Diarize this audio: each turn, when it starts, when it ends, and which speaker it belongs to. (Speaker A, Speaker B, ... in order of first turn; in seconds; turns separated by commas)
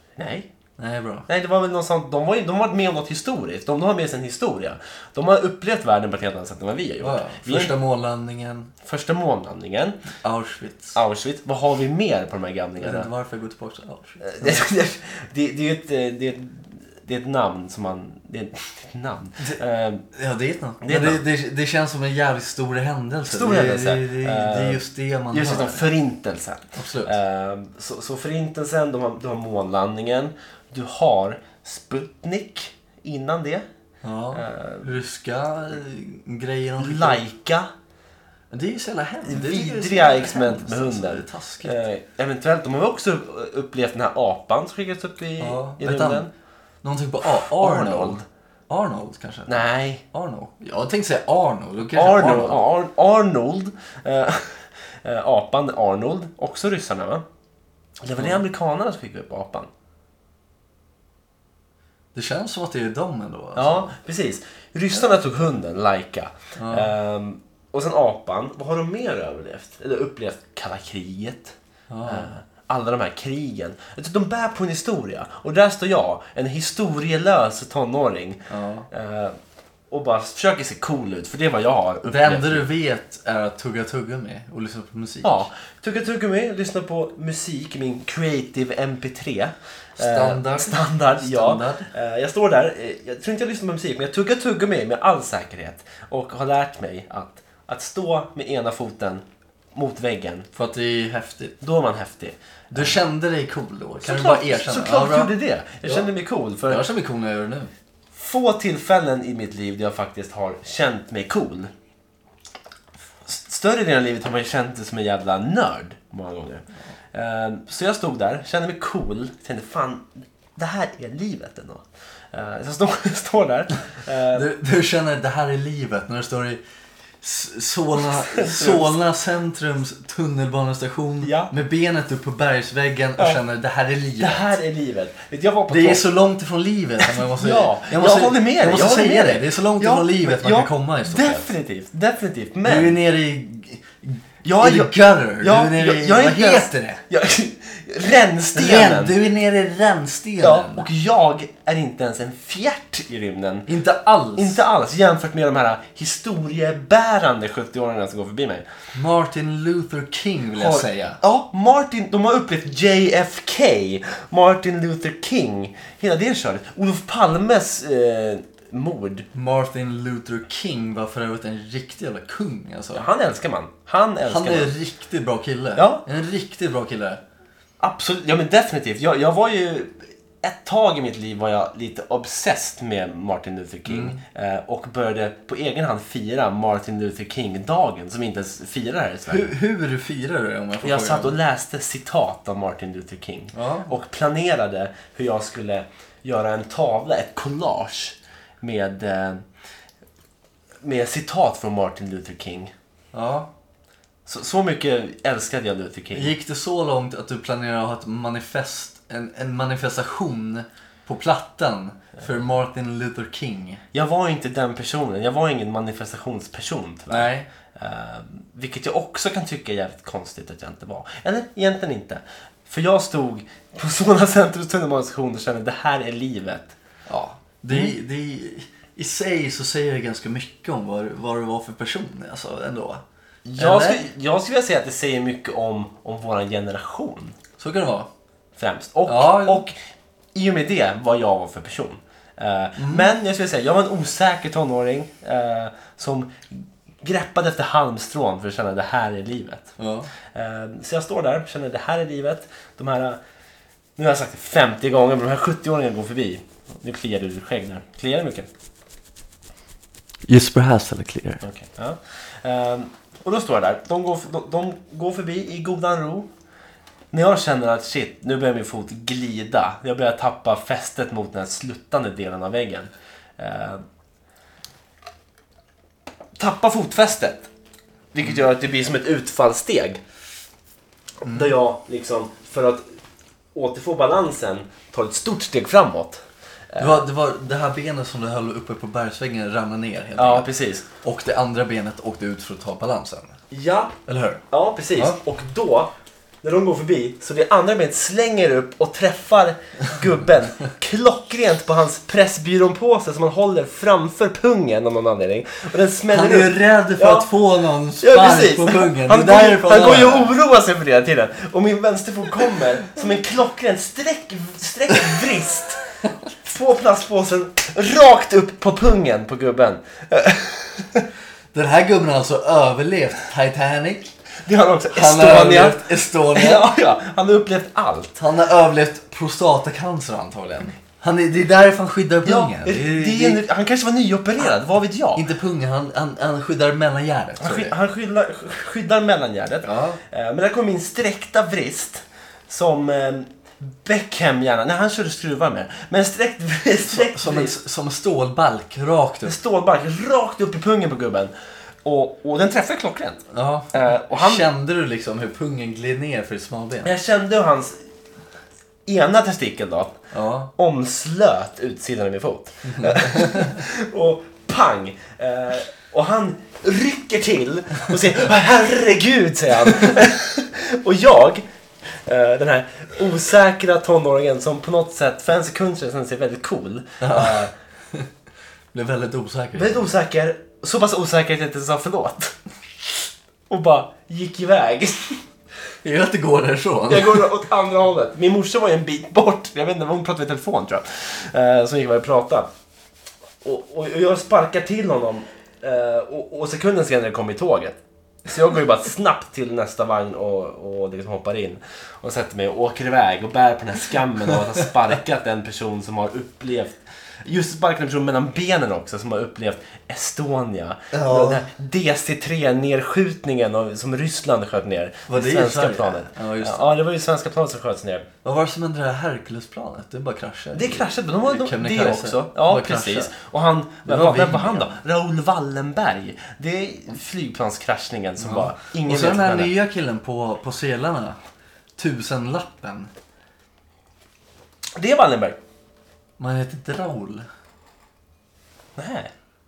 Speaker A: 0.2-0.5, Speaker B: 0.8-1.3, Speaker A: 1.3-7.7, Speaker B: 7.0-8.7, Speaker A: 8.8-10.0, Speaker B: 10.1-11.0, Speaker A: 10.9-13.1, Speaker B: 12.8-14.7, Speaker A: 14.2-20.1, Speaker B: 20.1-25.9, Speaker A: 20.8-21.2, Speaker A: 23.3-33.7, Speaker B: 26.8-27.1, Speaker B: 34.0-37.2, Speaker A: 34.3-34.9, Speaker A: 36.8-37.7, Speaker B: 38.5-41.8, Speaker A: 39.2-46.3, Speaker B: 45.4-46.3, Speaker B: 46.8-52.6, Speaker A: 47.2-48.2, Speaker A: 49.5-50.0, Speaker A: 51.9-57.2, Speaker A: 58.0-59.7, Speaker B: 58.2-58.4, Speaker B: 62.1-63.9, Speaker A: 63.6-79.4, Speaker B: 66.6-66.9, Speaker B: 71.9-72.3, Speaker B: 78.5-78.9, Speaker A: 79.9-82.7, Speaker B: 82.1-85.5, Speaker A: 85.2-99.2, Speaker B: 90.0-91.9, Speaker A: 99.7-100.5, Speaker B: 100.5-101.6, Speaker A: 101.6-103.0, Speaker B: 102.7-105.3, Speaker A: 104.0-106.9, Speaker B: 106.7-107.7, Speaker A: 108.1-111.7, Speaker A: 113.3-124.5, Speaker B: 124.3-126.6, Speaker B: 127.2-134.5, Speaker A: 128.0-128.9, Speaker A: 131.2-131.5, Speaker A: 134.2-136.1, Speaker B: 135.7-141.5, Speaker A: 137.0-143.0, Speaker B: 142.7-147.0, Speaker A: 144.4-149.2, Speaker B: 148.5-150.9, Speaker A: 150.4-153.7, Speaker B: 153.7-154.6, Speaker A: 154.4-158.7, Speaker B: 158.9-161.2, Speaker A: 160.6-169.3, Speaker B: 169.3-173.1, Speaker A: 172.9-174.8, Speaker B: 174.2-177.2, Speaker A: 175.8-176.0, Speaker A: 177.8-189.5, Speaker B: 183.9-184.2, Speaker B: 189.3-191.4, Speaker A: 190.8-199.4, Speaker B: 193.5-193.9, Speaker A: 200.8-202.7, Speaker B: 203.1-203.5, Speaker A: 204.3-206.3, Speaker B: 206.1-213.8, Speaker A: 213.9-226.7, Speaker B: 217.1-217.5, Speaker B: 227.1-233.0, Speaker A: 233.5-237.4, Speaker B: 233.5-234.0, Speaker B: 237.6-238.1, Speaker A: 238.6-239.8, Speaker B: 239.1-239.7, Speaker A: 240.3-249.8, Speaker B: 242.8-243.1, Speaker B: 249.8-250.1, Speaker A: 250.3-253.2, Speaker A: 254.0-258.5, Speaker B: 260.3-261.4, Speaker A: 261.4-266.3, Speaker A: 267.1-273.8, Speaker A: 276.4-277.5, Speaker A: 278.1-280.0, Speaker B: 281.3-281.5, Speaker A: 281.3-282.9, Speaker A: 283.5-287.0, Speaker B: 286.8-290.5, Speaker A: 290.2-290.9, Speaker B: 291.0-293.4, Speaker A: 293.5-294.0, Speaker B: 294.1-294.4, Speaker A: 294.5-295.9, Speaker A: 296.4-307.3, Speaker B: 306.1-310.3, Speaker A: 308.0-321.1, Speaker B: 321.5-324.1, Speaker A: 324.4-328.2, Speaker B: 324.9-326.7, Speaker B: 328.2-333.4, Speaker A: 332.2-335.3, Speaker B: 335.1-337.8, Speaker A: 337.4-347.6, Speaker B: 339.6-340.0, Speaker B: 346.9-349.4, Speaker A: 349.2-351.3, Speaker A: 351.8-354.5, Speaker B: 353.3-356.9, Speaker A: 356.8-357.8, Speaker A: 358.9-360.0, Speaker B: 360.1-360.5, Speaker A: 360.6-377.5, Speaker B: 362.6-363.6, Speaker B: 377.0-378.1, Speaker B: 378.7-379.9, Speaker A: 379.6-382.3, Speaker A: 383.5-385.2, Speaker B: 385.8-387.3, Speaker A: 386.9-392.5, Speaker A: 393.4-418.1, Speaker B: 410.9-411.5, Speaker B: 415.1-416.7, Speaker B: 418.2-423.1, Speaker A: 420.6-429.5, Speaker B: 423.9-424.8, Speaker B: 428.2-431.2, Speaker B: 431.8-432.9, Speaker A: 434.8-435.4, Speaker B: 436.2-437.3, Speaker A: 438.8-439.1